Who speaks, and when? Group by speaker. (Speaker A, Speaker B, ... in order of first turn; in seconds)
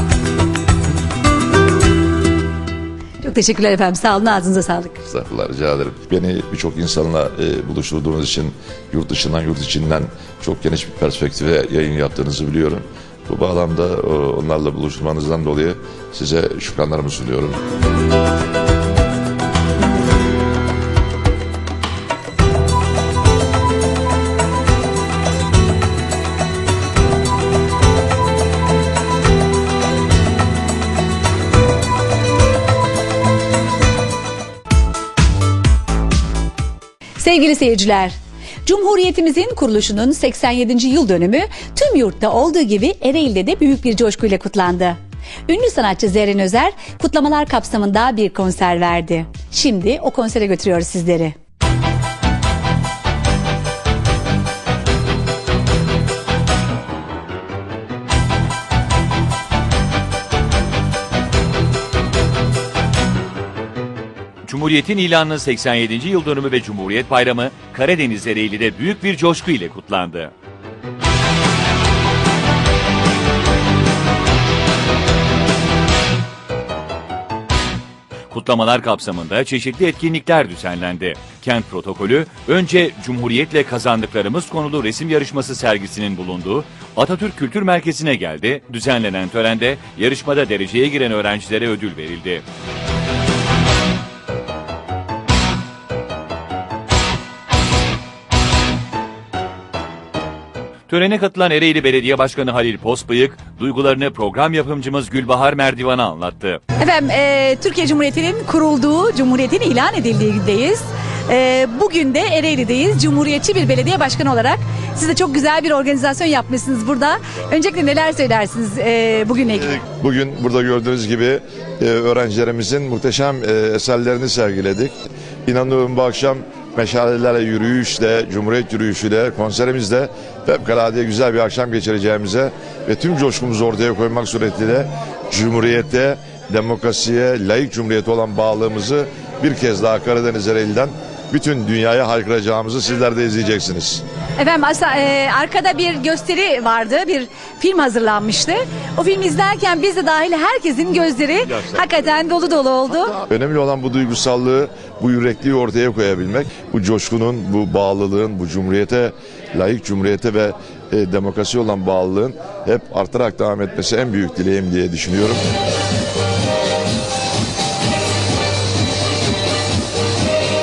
Speaker A: 3.2-5.0, 37.2-51.4, 106.8-119.7, 144.4-153.2
Speaker B: 5.0-17.6, 119.5-124.9, 125.5-144.0, 151.5-152.1, 153.2-165.4
Speaker C: 64.5-70.3, 78.3-92.4, 100.9-106.6